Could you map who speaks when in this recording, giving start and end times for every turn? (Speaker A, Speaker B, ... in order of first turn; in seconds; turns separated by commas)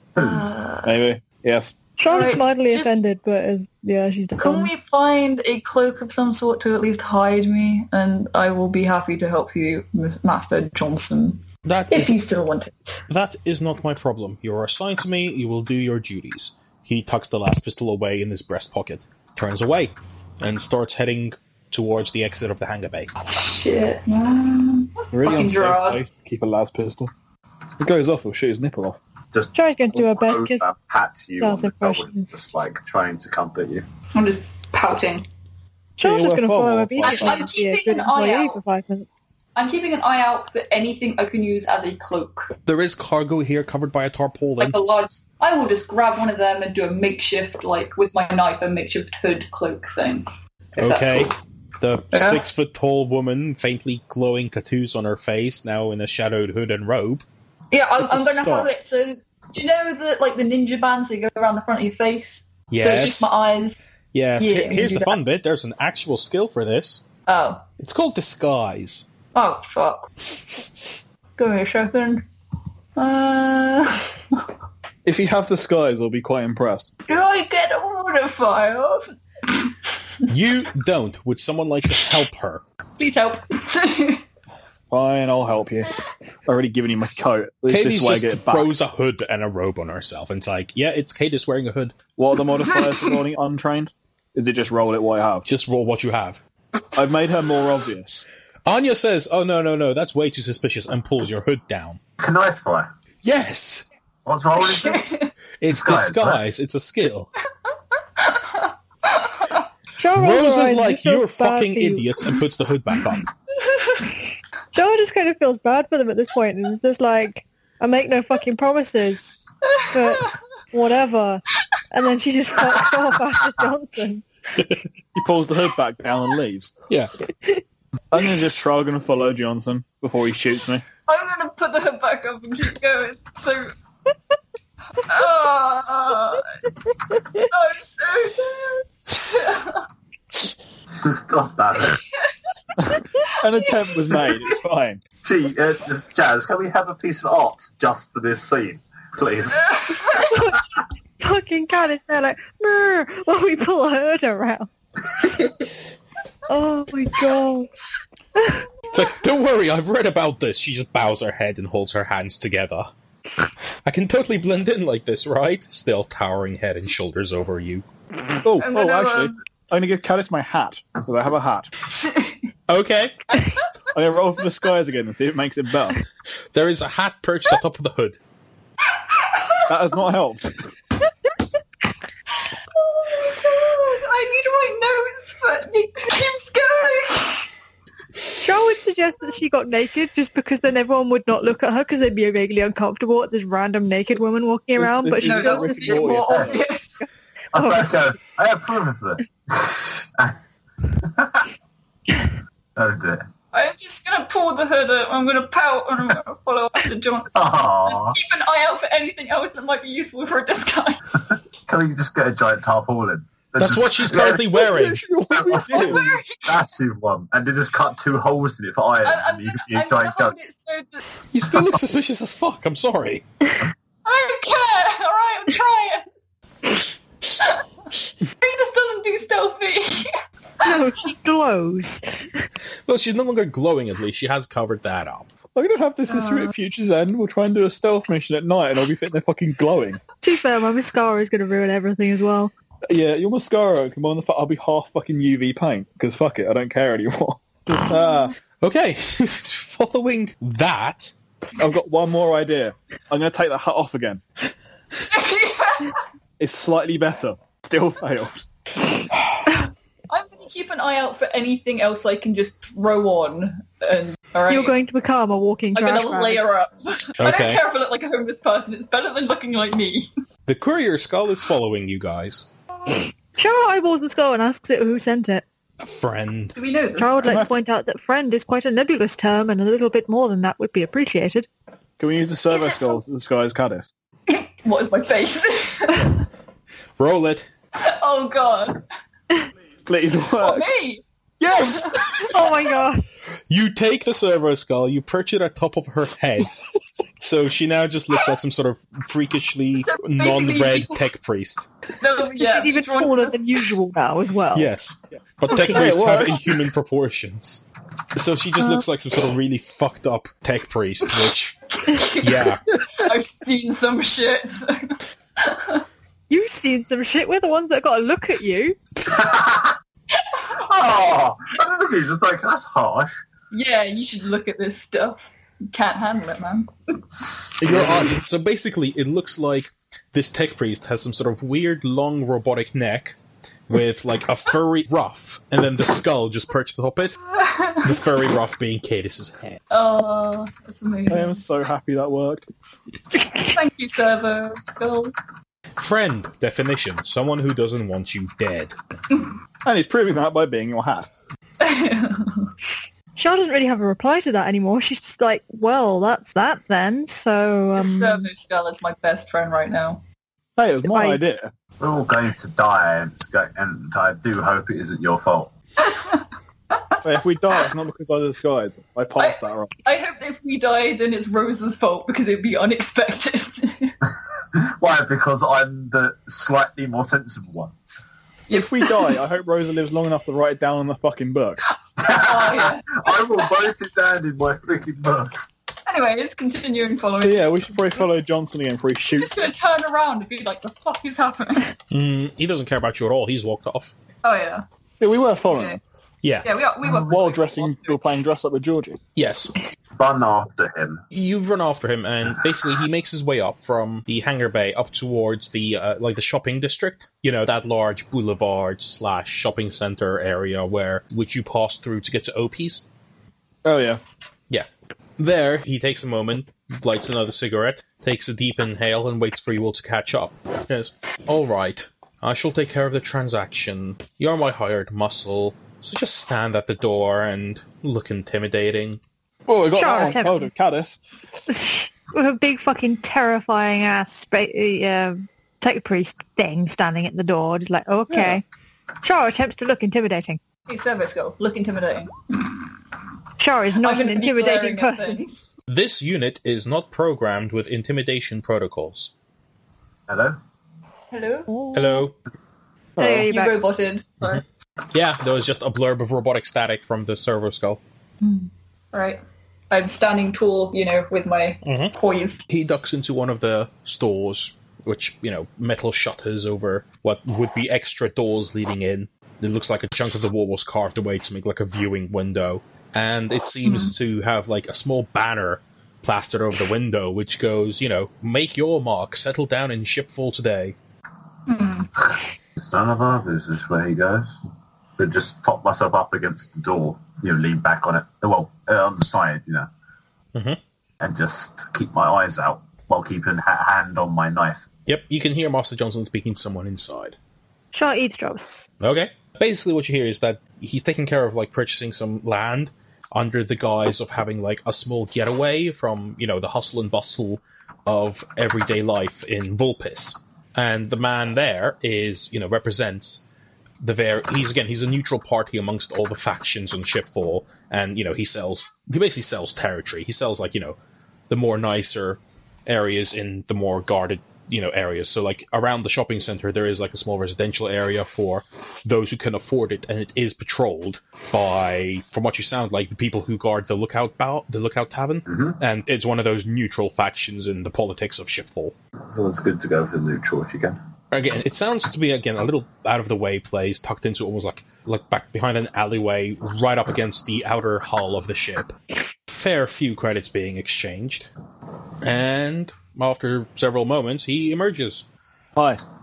Speaker A: 0.2-0.5, Speaker B: 0.2-1.0, Speaker C: 0.8-1.7, Speaker D: 2.0-4.7, Speaker B: 2.1-3.0, Speaker B: 4.4-13.0, Speaker E: 11.6-12.2, Speaker E: 13.1-23.1, Speaker B: 23.2-26.0, Speaker C: 25.1-27.1, Speaker C: 27.8-29.0, Speaker A: 29.3-33.9, Speaker D: 29.5-30.7, Speaker D: 31.4-32.5, Speaker B: 34.1-35.3, Speaker D: 36.0-39.1, Speaker C: 36.0-37.4, Speaker B: 37.0-38.6, Speaker B: 39.5-42.5, Speaker E: 42.7-44.8, Speaker B: 44.6-50.3, Speaker E: 50.8-57.2, Speaker B: 50.8-51.3, Speaker B: 52.1-52.4, Speaker B: 57.7-65.2, Speaker C: 58.2-58.7, Speaker E: 62.7-63.3, Speaker E: 64.1-67.0, Speaker B: 67.3-67.6, Speaker E: 67.8-69.1, Speaker B: 69.3-70.3, Speaker B: 71.4-72.3, Speaker B: 73.0-74.5, Speaker C: 75.0-76.9, Speaker B: 77.1-79.7, Speaker E: 80.3-82.6, Speaker B: 83.0-84.2, Speaker C: 84.9-85.9, Speaker C: 86.5-88.7, Speaker E: 87.7-92.0, Speaker C: 92.2-95.5, Speaker B: 92.9-93.1, Speaker E: 95.5-96.4, Speaker C: 97.0-98.3, Speaker E: 98.7-102.0, Speaker A: 102.2-102.9, Speaker E: 103.2-103.9, Speaker A: 104.2-105.0, Speaker B: 104.6-105.3, Speaker E: 105.6-107.3, Speaker A: 105.7-106.4, Speaker B: 108.2-109.7, Speaker D: 110.0-112.1, Speaker E: 110.1-113.3, Speaker B: 113.7-114.0, Speaker D: 114.7-124.3, Speaker B: 119.8-120.4, Speaker C: 125.1-126.7, Speaker C: 128.1-130.8, Speaker B: 131.1-133.7, Speaker B: 135.0-136.5, Speaker B: 137.4-139.9, Speaker A: 140.9-142.0, Speaker C: 142.8-145.0, Speaker A: 145.2-149.7, Speaker B: 149.6-150.3, Speaker D: 150.3-150.6, Speaker D: 151.2-154.7, Speaker D: 156.5-157.8, Speaker D: 158.3-158.6, Speaker E: 158.9-162.9, Speaker E: 163.9-167.8, Speaker C: 168.4-171.7, Speaker B: 168.6-169.4, Speaker B: 171.9-172.5, Speaker E: 172.7-173.3, Speaker B: 173.3-173.9, Speaker C: 173.9-176.0, Speaker E: 176.5-178.2, Speaker B: 179.1-179.7, Speaker C: 179.7-180.6, Speaker B: 182.4-187.5, Speaker D: 188.4-196.2, Speaker C: 194.8-196.6, Speaker B: 195.2-197.1, Speaker A: 196.2-196.6, Speaker A: 197.5-200.4, Speaker D: 197.6-197.9, Speaker A: 201.0-201.5, Speaker A: 202.8-203.2, Speaker B: 203.5-211.2, Speaker A: 207.3-208.2, Speaker A: 211.7-214.4, Speaker E: 213.6-215.1, Speaker C: 214.1-216.1, Speaker A: 215.3-220.4, Speaker B: 215.5-216.6, Speaker B: 219.0-221.1, Speaker E: 221.3-223.2, Speaker B: 224.1-226.1, Speaker B: 228.4-230.1, Speaker D: 230.6-232.2, Speaker E: 232.9-235.3, Speaker C: 235.6-240.0, Speaker B: 236.1-236.5, Speaker D: 240.2-242.5, Speaker C: 242.9-248.3, Speaker E: 248.6-251.1, Speaker C: 251.6-254.2, Speaker B: 255.1-256.0, Speaker C: 256.4-258.4, Speaker B: 260.1-264.8, Speaker D: 264.5-266.5, Speaker B: 265.7-270.1, Speaker E: 267.2-267.6, Speaker E: 270.5-272.5, Speaker D: 273.4-275.4, Speaker E: 275.8-276.6, Speaker B: 276.6-277.4, Speaker D: 276.9-281.5, Speaker C: 282.0-283.9, Speaker B: 282.5-282.8, Speaker B: 284.3-286.3, Speaker E: 287.0-287.5, Speaker B: 287.8-288.8, Speaker C: 289.9-290.7, Speaker B: 290.4-292.5, Speaker C: 291.4-292.3, Speaker D: 292.2-293.1, Speaker E: 293.5-296.6, Speaker E: 297.2-301.7, Speaker B: 299.7-301.0, Speaker B: 302.0-303.7, Speaker D: 302.4-304.7, Speaker E: 304.5-307.6, Speaker D: 305.5-305.8, Speaker C: 305.5-306.6, Speaker E: 308.1-311.6, Speaker B: 311.8-315.9, Speaker E: 312.2-312.6, Speaker D: 316.3-318.8, Speaker A: 319.1-319.7, Speaker B: 320.2-320.6, Speaker A: 320.5-323.2, Speaker B: 323.5-326.7, Speaker E: 327.6-333.2, Speaker E: 333.7-337.2, Speaker B: 337.3-337.9, Speaker E: 337.8-339.6, Speaker B: 339.7-341.4, Speaker C: 341.1-342.4, Speaker B: 343.3-345.1, Speaker E: 345.8-348.7, Speaker C: 349.6-351.1, Speaker B: 351.6-352.5, Speaker D: 353.2-358.3, Speaker B: 357.8-360.0, Speaker C: 360.6-361.5, Speaker D: 360.9-361.2, Speaker A: 361.8-365.5, Speaker B: 365.8-367.0, Speaker C: 367.0-369.7, Speaker B: 369.2-373.9, Speaker A: 374.5-377.7, Speaker B: 378.5-379.2, Speaker C: 378.5-381.6, Speaker B: 382.0-383.7, Speaker A: 382.0-385.4, Speaker B: 385.9-388.1, Speaker C: 387.2-389.3, Speaker B: 389.1-391.8, Speaker E: 391.9-393.9, Speaker B: 394.2-394.7, Speaker C: 395.0-395.8, Speaker B: 395.4-395.8, Speaker E: 396.2-396.5, Speaker B: 396.4-398.2, Speaker C: 396.8-399.0, Speaker E: 399.2-399.5, Speaker A: 399.9-401.0, Speaker E: 401.1-412.9, Speaker C: 413.6-414.0, Speaker E: 414.5-429.0, Speaker C: 429.5-431.0, Speaker D: 429.7-430.5, Speaker D: 431.5-438.4, Speaker C: 438.1-438.4, Speaker D: 439.0-440.4, Speaker B: 440.7-442.5, Speaker D: 443.4-445.2, Speaker B: 443.8-445.5, Speaker E: 445.7-449.1, Speaker A: 450.1-450.4, Speaker B: 451.1-451.6, Speaker D: 451.5-452.1, Speaker E: 451.7-452.1, Speaker D: 453.0-453.6, Speaker C: 453.0-453.3, Speaker B: 453.0-454.4, Speaker E: 454.9-457.8, Speaker B: 458.2-462.5, Speaker E: 461.6-461.9, Speaker E: 462.5-480.8, Speaker B: 473.6-473.9, Speaker B: 481.5-482.2, Speaker A: 482.6-484.3, Speaker A: 485.0-489.7, Speaker A: 491.0-494.7, Speaker E: 494.9-497.2, Speaker D: 497.7-498.4, Speaker E: 498.8-513.2, Speaker E: 513.8-520.8, Speaker E: 521.3-538.7, Speaker A: 535.3-535.6, Speaker A: 539.1-540.8, Speaker E: 541.1-548.7, Speaker E: 549.3-551.3, Speaker E: 552.0-555.1, Speaker C: 555.5-555.8